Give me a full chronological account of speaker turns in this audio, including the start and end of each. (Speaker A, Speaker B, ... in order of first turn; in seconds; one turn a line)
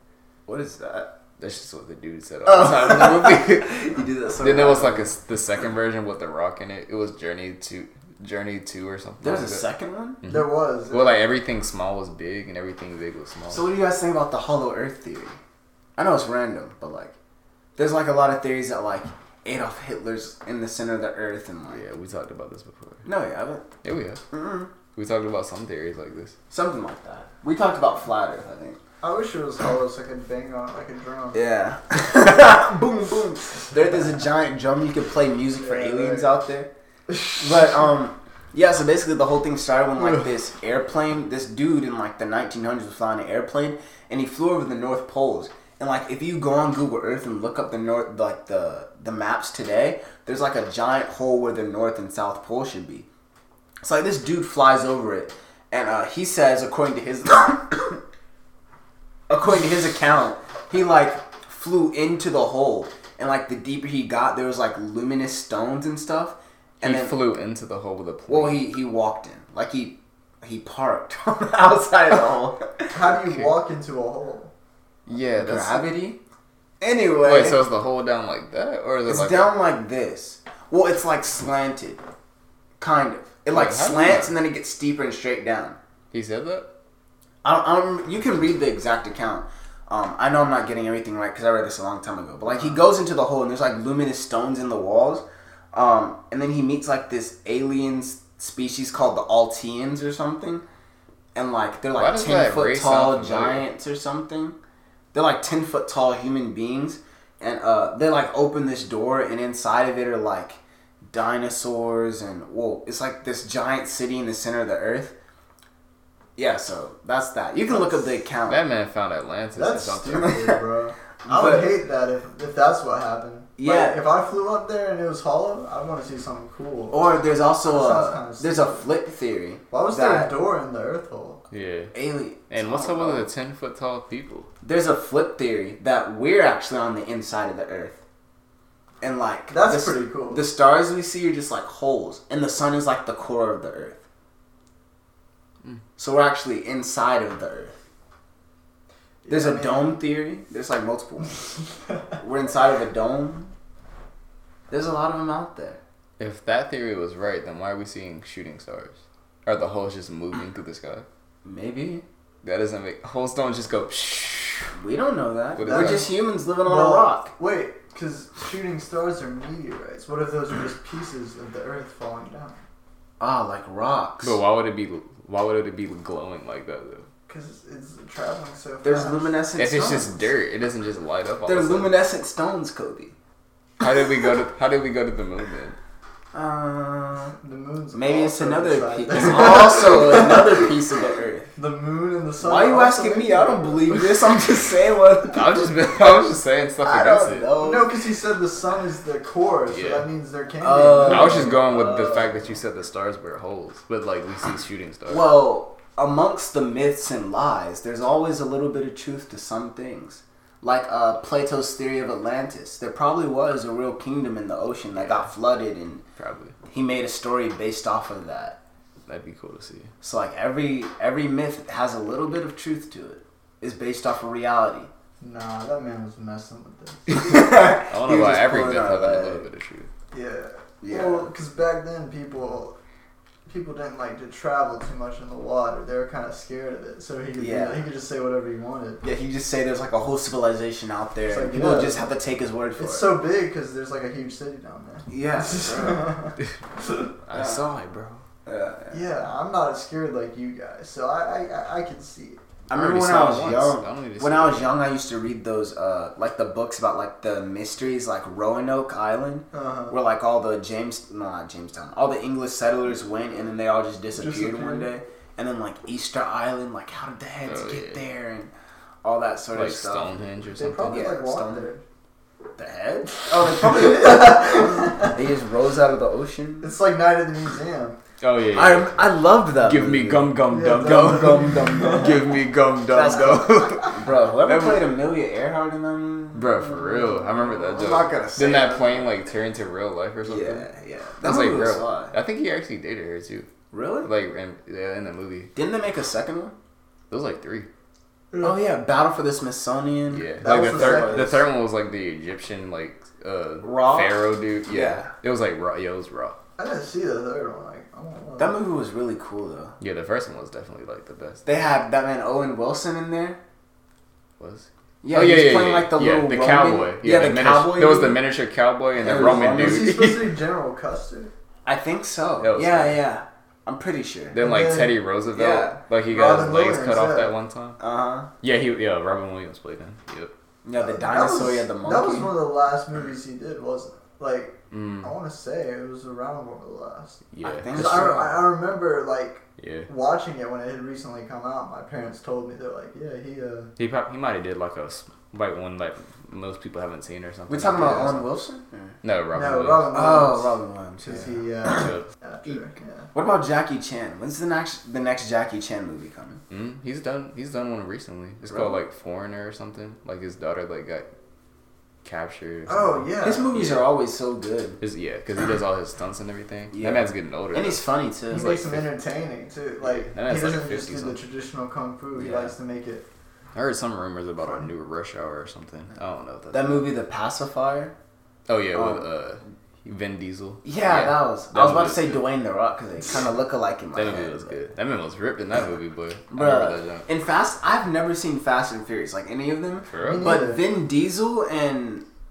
Speaker A: 0.5-1.1
Speaker B: 1.4-9.7
Speaker A: 2.5-5.1
Speaker A: 9.2-10.2
Speaker B: 10.2-13.7
Speaker C: 10.3-11.2
Speaker A: 13.5-15.4
Speaker A: 16.0-17.1
Speaker A: 17.8-21.8
Speaker B: 21.7-23.1
Speaker A: 23.1-23.6
Speaker B: 23.8-24.2
Speaker A: 24.3-24.7
Speaker B: 24.9-26.4
Speaker A: 26.5-28.8
Speaker C: 29.0-31.4
Speaker A: 31.3-36.7
Speaker C: 35.6-36.3
Speaker A: 37.4-53.0
Speaker A: 53.8-58.0
Speaker A: 59.3-67.1
Speaker B: 66.8-68.6
Speaker A: 68.3-72.9
Speaker C: 72.9-74.5
Speaker B: 73.2-73.5
Speaker B: 75.1-75.9
Speaker A: 75.4-76.2
Speaker A: 76.8-77.6
Speaker B: 77.2-79.5
Speaker A: 79.1-82.0
Speaker A: 82.8-85.8
Speaker B: 83.5-84.3
Speaker B: 86.1-86.7
Speaker A: 87.4-100.6
Speaker A: 101.3-104.5
Speaker B: 101.9-103.7
Speaker A: 105.1-115.1
Speaker A: 116.4-118.6
Speaker B: 118.5-120.4
Speaker C: 119.5-127.0
Speaker A: 120.2-120.6
Speaker A: 121.2-121.7
Speaker A: 123.6-124.0
Speaker A: 126.9-130.3
Speaker C: 127.7-128.8
Speaker C: 129.7-131.4
Speaker B: 131.5-131.9
Speaker A: 131.9-133.3
Speaker B: 132.5-134.5
Speaker A: 134.6-138.0
Speaker A: 139.0-144.0
Speaker C: 139.5-140.5
Speaker A: 146.0-147.8
Speaker C: 149.2-150.0
Speaker A: 149.3-151.5
Speaker A: 152.2-153.5
Speaker A: 154.7-155.8
Speaker B: 156.2-161.1
Speaker A: 161.4-162.0
Speaker B: 162.4-164.7
Speaker A: 164.8-167.3
Speaker B: 165.6-166.1
Speaker C: 165.6-172.6
Speaker A: 173.2-174.4
Speaker B: 174.2-177.1
Speaker C: 177.3-179.6
Speaker A: 178.8-180.1
Speaker B: 179.6-182.0
Speaker A: 181.4-183.1
Speaker B: 183.8-185.8
Speaker A: 186.3-187.3
Speaker C: 187.4-190.7
Speaker A: 187.9-191.5
Speaker C: 191.6-194.1
Speaker A: 192.4-195.9
Speaker B: 195.2-197.6
Speaker A: 196.8-197.9
Speaker C: 197.5-201.6
Speaker B: 199.7-200.1
Speaker A: 200.6-202.3
Speaker B: 201.0-205.3
Speaker A: 205.1-216.0
Speaker B: 214.9-215.3
Speaker B: 216.2-216.6
Speaker A: 216.7-218.6
Speaker B: 219.1-219.9
Speaker A: 220.0-224.9
Speaker C: 225.2-227.0
Speaker A: 227.1-229.4
Speaker B: 227.6-229.9
Speaker C: 230.1-232.8
Speaker A: 230.8-231.3
Speaker C: 233.4-239.0
Speaker A: 237.4-237.8
Speaker A: 239.0-243.2
Speaker C: 241.2-242.1
Speaker C: 242.8-247.1
Speaker A: 245.1-246.2
Speaker B: 247.3-248.2
Speaker A: 247.3-247.6
Speaker A: 248.4-249.1
Speaker C: 248.9-252.4
Speaker A: 252.7-268.5
Speaker B: 252.7-254.8
Speaker C: 259.5-259.9
Speaker C: 264.1-264.9
Speaker B: 267.4-268.1
Speaker A: 269.0-270.2
Speaker B: 269.6-271.1
Speaker C: 270.6-271.8
Speaker A: 270.9-271.7
Speaker A: 272.6-276.7
Speaker C: 273.7-275.1
Speaker C: 276.6-278.0
Speaker B: 278.2-284.8
Speaker A: 278.6-282.3
Speaker C: 280.5-282.1
Speaker A: 282.9-286.7
Speaker B: 286.3-290.7
Speaker C: 287.7-288.1
Speaker A: 287.8-289.1
Speaker A: 290.2-292.1
Speaker B: 291.2-293.5
Speaker A: 293.7-294.1
Speaker B: 294.0-295.5
Speaker A: 295.5-296.6
Speaker B: 297.1-297.7
Speaker A: 298.4-301.4
Speaker B: 300.1-306.4
Speaker C: 300.4-301.4
Speaker A: 303.6-305.1
Speaker C: 306.6-308.6
Speaker A: 308.4-309.8
Speaker B: 309.8-311.4
Speaker A: 311.4-313.4
Speaker B: 314.4-320.3
Speaker A: 315.0-318.2
Speaker A: 319.0-320.0
Speaker C: 319.0-321.3
Speaker A: 321.6-324.4
Speaker B: 322.4-323.1
Speaker B: 324.3-327.8
Speaker C: 324.3-325.0
Speaker A: 325.3-325.8
Speaker C: 326.1-327.3
Speaker A: 327.8-328.3
Speaker B: 328.4-330.3
Speaker A: 330.6-332.3
Speaker C: 330.8-343.7
Speaker B: 334.7-335.1
Speaker B: 337.3-338.4
Speaker A: 337.4-338.4
Speaker B: 339.6-339.9
Speaker B: 343.8-348.3
Speaker A: 347.5-348.9
Speaker B: 349.0-349.9
Speaker C: 349.3-353.1
Speaker A: 349.9-351.9
Speaker B: 351.6-352.6
Speaker A: 353.1-356.4
Speaker B: 356.5-361.1
Speaker B: 362.1-363.9
Speaker C: 362.7-363.6
Speaker A: 363.2-364.8
Speaker B: 364.8-368.8
Speaker A: 366.7-368.7
Speaker C: 368.3-373.1
Speaker B: 369.8-371.2
Speaker A: 372.2-372.5
Speaker B: 373.6-376.9
Speaker C: 374.4-374.7
Speaker A: 376.5-377.9
Speaker B: 378.5-382.3
Speaker A: 378.7-379.0
Speaker A: 380.6-384.6
Speaker B: 383.9-387.1
Speaker A: 386.3-392.1
Speaker B: 389.9-390.4
Speaker C: 390.0-390.7